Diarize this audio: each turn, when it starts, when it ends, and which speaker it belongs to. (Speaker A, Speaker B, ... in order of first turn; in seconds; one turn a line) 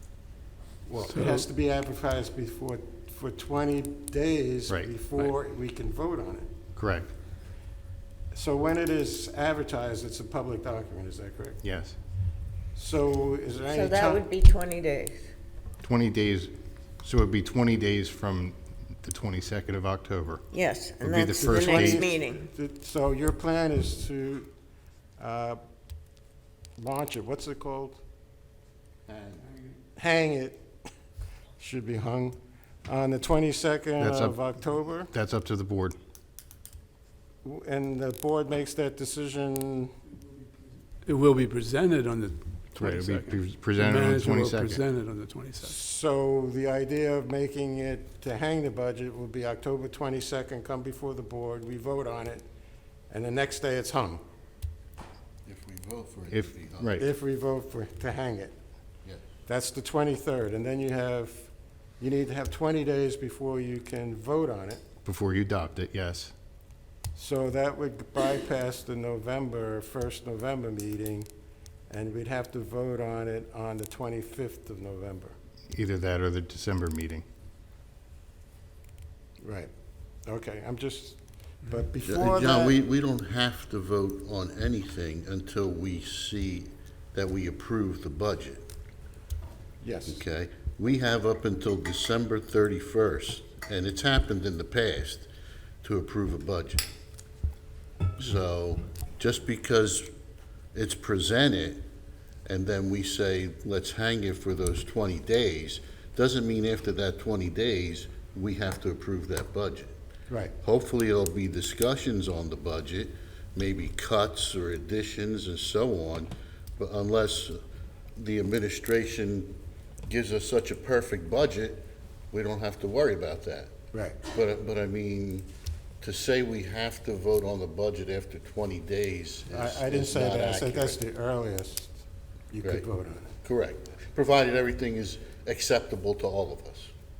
Speaker A: 0.9-6.5
Speaker B: 1.1-1.4
Speaker C: 6.8-7.1
Speaker A: 8.3-11.6
Speaker C: 11.6-12.0
Speaker A: 12.8-14.2
Speaker D: 13.7-15.3
Speaker C: 15.8-20.4
Speaker D: 20.5-22.4
Speaker C: 21.0-22.1
Speaker A: 21.4-24.5
Speaker A: 25.2-25.6
Speaker A: 26.8-28.0
Speaker A: 30.0-30.6
Speaker A: 31.6-35.1
Speaker C: 34.0-34.4
Speaker C: 35.1-36.0
Speaker A: 37.4-39.9
Speaker B: 41.0-45.8
Speaker C: 42.8-44.8
Speaker A: 45.6-52.5
Speaker A: 53.1-54.2
Speaker E: 55.5-57.0
Speaker C: 56.3-57.0
Speaker A: 57.0-58.6
Speaker A: 59.5-64.8
Speaker C: 65.0-66.3
Speaker A: 67.2-71.3
Speaker A: 71.9-75.4
Speaker C: 75.7-77.2
Speaker A: 79.4-79.7
Speaker A: 80.3-82.8
Speaker E: 82.0-88.7
Speaker A: 89.8-90.2
Speaker E: 90.1-95.3
Speaker E: 95.8-96.9
Speaker E: 98.2-100.1
Speaker E: 100.7-101.8
Speaker E: 102.5-109.9
Speaker A: 110.3-110.5
Speaker E: 110.6-117.6
Speaker E: 118.2-119.5
Speaker E: 120.1-123.7
Speaker A: 123.9-124.2
Speaker E: 124.3-125.5
Speaker E: 126.0-131.0
Speaker A: 129.5-133.3
Speaker E: 133.4-136.9